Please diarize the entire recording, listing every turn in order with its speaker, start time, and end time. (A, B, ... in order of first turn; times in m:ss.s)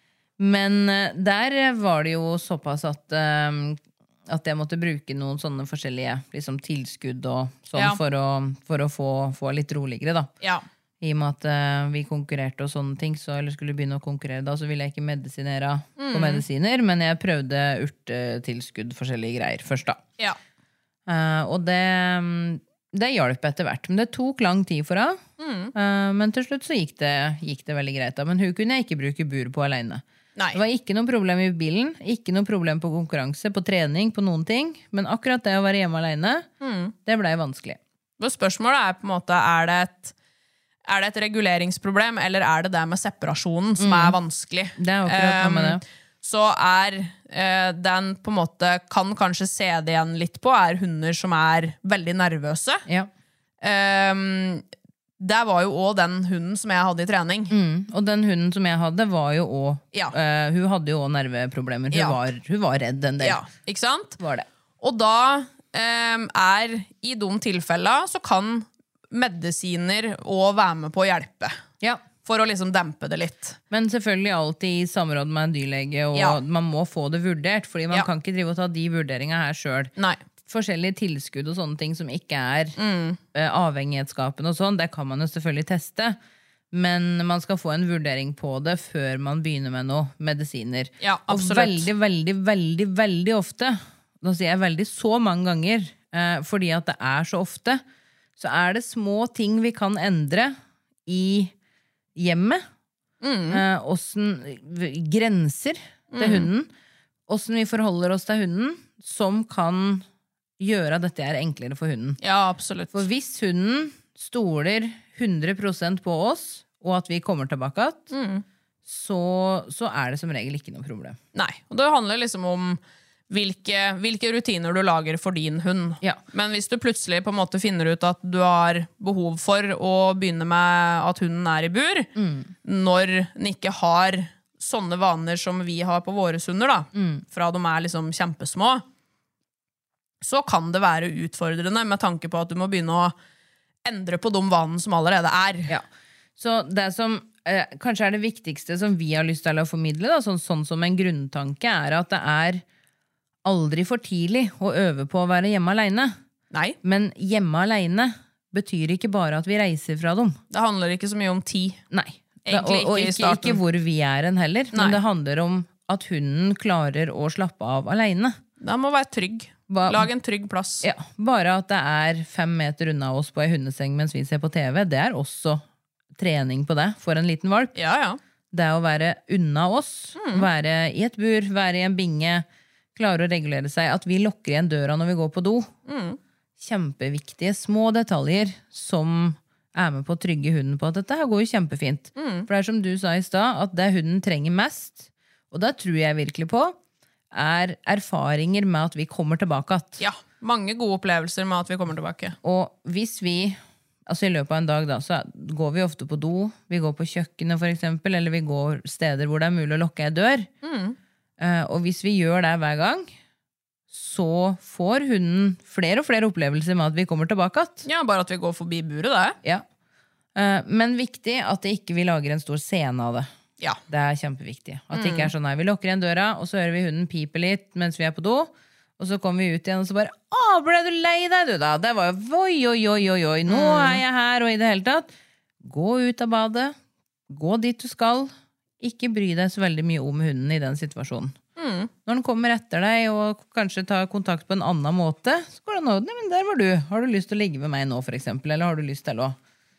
0:00.4-0:10.3 A
0:11.0-0:20.0 A
0:16.0-0:16.4 B
0:21.1-0:25.2 A
0:25.4-0:25.7 B
0:25.7-0:36.4 A
0:36.6-0:36.9 B
0:37.0-0:37.8 A
0:38.2-0:40.1 B
0:40.8-0:52.8 B
0:43.8-0:44.2 A
0:44.8-0:45.8 A
0:53.6-0:54.6 B
0:55.2-0:57.5 B
0:57.5-1:03.4 A
1:01.9-1:02.2 B
1:03.2-1:04.2 B
1:04.2-1:04.5 A
1:04.8-1:11.6 B
1:12.2-1:13.6 B
1:13.7-1:19.9 A
1:16.1-1:16.4 B
1:20.5-1:22.8 A
1:22.8-1:23.2 B
1:23.3-1:26.2 A
1:26.7-1:37.8 A
1:31.0-1:31.9 B
1:38.4-1:40.5 A
1:41.0-1:41.5 A
1:42.2-1:42.6 A
1:43.2-1:43.6 B
1:43.5-1:46.7 A
1:46.1-1:46.5 B
1:47.3-1:50.0 A
1:50.6-1:52.2 A
1:52.2-1:53.0 B
1:52.9-1:58.1 A
1:58.1-1:58.4 B
1:58.8-2:01.2 A
2:01.3-2:12.1 B
2:12.2-2:12.5 A
2:12.6-2:18.8 B
2:16.9-2:17.2 A
2:20.2-2:23.1 B
2:23.8-2:25.7 B
2:26.4-2:32.6 A
2:33.4-2:36.1 A
2:36.8-2:40.4 A
2:40.5-2:41.8 B
2:41.9-2:48.4 A
2:42.4-2:43.6 B
2:44.7-2:45.0 B
2:48.6-2:50.8 B
2:49.7-2:50.1 A
2:50.8-2:55.6 A
2:56.2-2:57.7 A
2:57.7-2:58.2 B
2:58.5-3:05.7 A
3:00.2-3:00.5 B
3:05.8-3:06.2 B
3:06.6-3:16.8 A
3:12.2-3:12.5 B
3:17.3-3:20.0 A
3:20.0-3:22.4 B
3:22.4-3:30.5 A
3:30.6-3:31.0 B
3:31.4-3:33.1 A
3:33.9-3:37.9 A
3:37.8-3:39.4 B
3:40.4-3:43.3 A
3:43.9-3:55.1 A
3:44.9-3:45.3 B
3:53.5-3:54.0 B
3:55.6-3:56.7 A
3:57.3-4:01.3 A
4:01.6-4:01.9 B
4:02.0-4:09.4 A